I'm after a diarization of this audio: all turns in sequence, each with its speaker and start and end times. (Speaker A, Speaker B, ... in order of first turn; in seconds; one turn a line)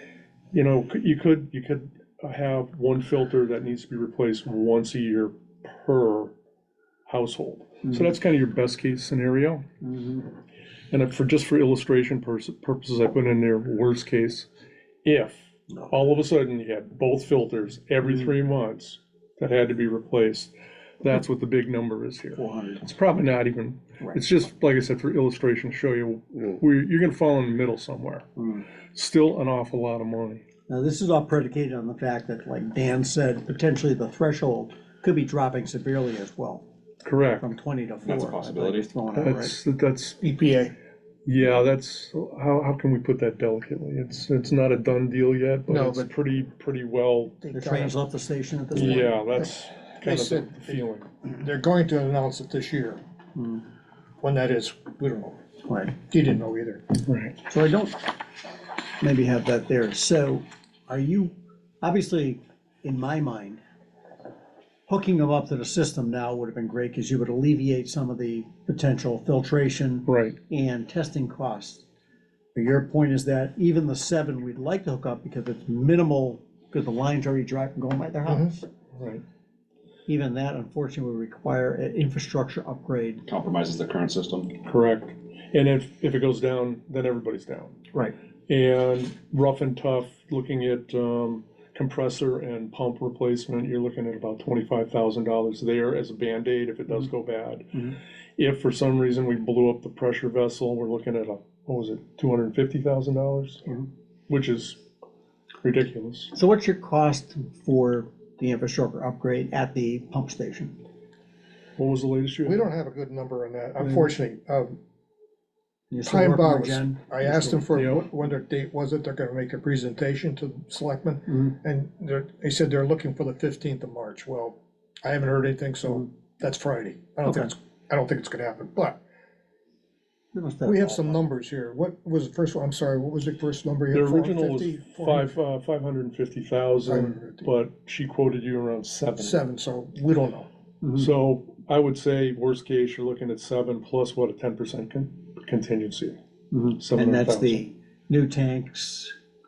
Speaker A: 0.5-6.3
Speaker A: 7.1-9.7
Speaker B: 9.8-10.3
Speaker A: 10.9-14.5
Speaker A: 15.0-28.3
Speaker B: 22.4-22.9
Speaker B: 28.4-28.6
Speaker A: 28.9-30.4
Speaker B: 30.7-36.7
Speaker A: 37.0-37.5
Speaker B: 37.4-39.6
Speaker C: 38.0-38.9
Speaker A: 39.1-40.2
Speaker D: 40.2-40.8
Speaker A: 41.3-47.5
Speaker D: 45.7-46.1
Speaker D: 47.4-48.0
Speaker B: 47.5-49.3
Speaker A: 48.7-51.1
Speaker D: 48.8-50.8
Speaker D: 51.4-53.0
Speaker B: 53.4-53.6
Speaker D: 54.2-55.4
Speaker B: 55.6-56.0
Speaker D: 56.0-56.8
Speaker A: 57.1-57.4
Speaker B: 57.5-58.2
Speaker B: 59.0-63.6
Speaker B: 64.9-71.9
Speaker A: 70.1-70.4
Speaker B: 72.5-78.7
Speaker D: 78.3-78.5
Speaker A: 79.0-79.2
Speaker B: 80.1-83.3
Speaker C: 83.3-84.5
Speaker A: 84.6-87.8
Speaker A: 88.5-103.7
Speaker A: 104.3-104.8
Speaker A: 105.6-106.3
Speaker B: 106.3-110.8
Speaker A: 111.8-112.7
Speaker D: 112.5-114.8
Speaker B: 113.8-114.1
Speaker B: 115.9-118.0
Speaker D: 116.0-129.0
Speaker A: 117.8-118.1
Speaker B: 121.3-121.6
Speaker B: 127.2-127.5
Speaker B: 130.3-131.2
Speaker D: 130.7-135.3
Speaker A: 133.9-139.4
Speaker D: 136.8-137.5
Speaker D: 139.1-140.5
Speaker B: 140.8-141.1
Speaker A: 140.9-146.2
Speaker B: 146.5-149.2
Speaker A: 146.8-147.7